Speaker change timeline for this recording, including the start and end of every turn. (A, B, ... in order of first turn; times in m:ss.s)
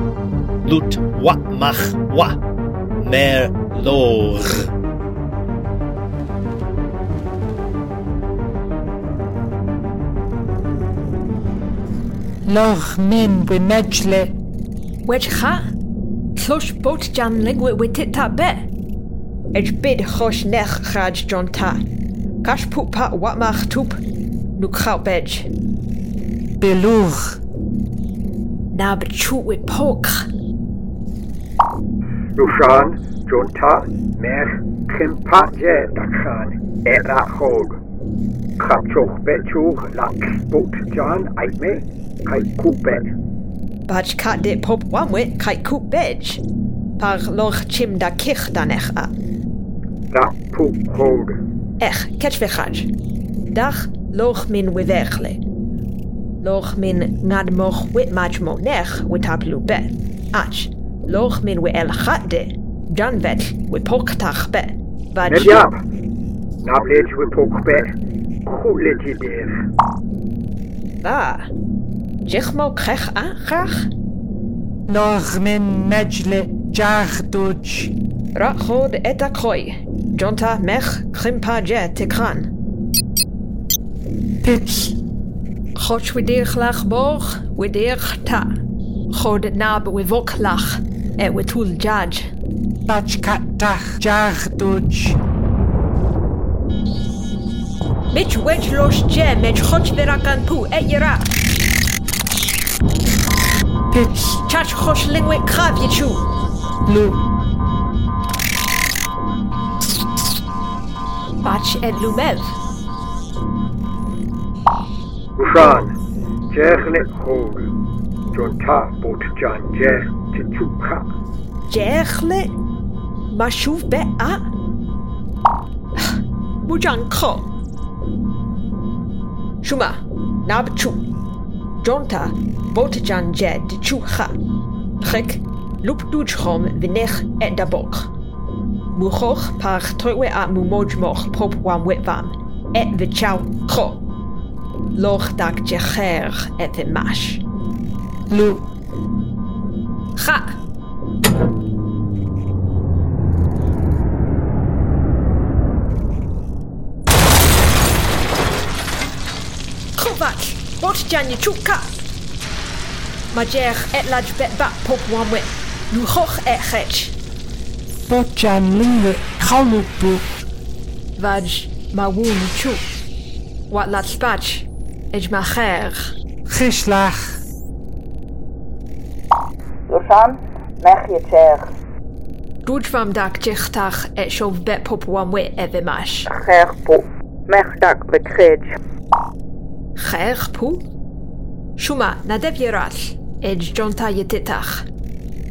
0:00.6-0:02.4 A
0:03.0-0:04.7 A
0:12.4-0:14.3 B
0:15.0-0:15.6 C
0:16.4-0:18.6 C
0:19.5-0:21.8 C
0:22.4-0:24.0 C
0:24.6-0:25.5 C
0:26.6-0:27.4 B
0:28.7-0:30.3 C
0:32.4-0:37.8 D
0:38.6-0:43.1 D
0:43.9-0:46.4 C
0:47.0-0:49.1 C
0:50.1-0:51.4 D
0:51.8-0:52.9 C
0:53.5-0:55.4 C
0:56.4-1:05.7 C
1:05.3-1:05.7 D
1:06.6-1:07.9 D
1:08.5-1:09.6 D
1:11.0-1:11.5 C
1:12.2-1:13.9 C
1:14.9-1:17.9 B
1:18.4-1:22.5 C
1:24.4-1:25.0 B
1:25.8-1:28.5 C
1:29.1-1:32.3 C
1:32.9-1:35.2 B
1:38.1-1:41.3 C
1:43.9-1:44.4 B
1:44.5-1:46.2 C
1:46.9-1:47.2 B
1:51.4-1:52.6 C
1:55.4-1:55.9 D
1:56.5-1:57.6 D
1:58.3-2:01.0 D
2:01.7-2:02.5 C
2:03.3-2:04.4 C
2:06.0-2:07.5 C
2:09.6-2:11.0 C
2:11.8-2:14.4 C
2:15.0-2:18.1 C
2:19.0-2:24.0 C
2:25.0-2:27.4 C
2:28.3-2:28.6 B
2:30.2-2:30.5 C
2:40.0-2:41.9 C
2:43.3-2:47.2 C
2:48.1-2:50.2 B
2:51.2-2:52.8 C
2:53.7-2:56.2 C
2:56.5-2:57.4 B
2:59.9-3:01.7 E
3:02.6-3:06.3 C
3:06.3-3:08.8 E
3:10.0-3:10.8 C
3:11.8-3:14.9 C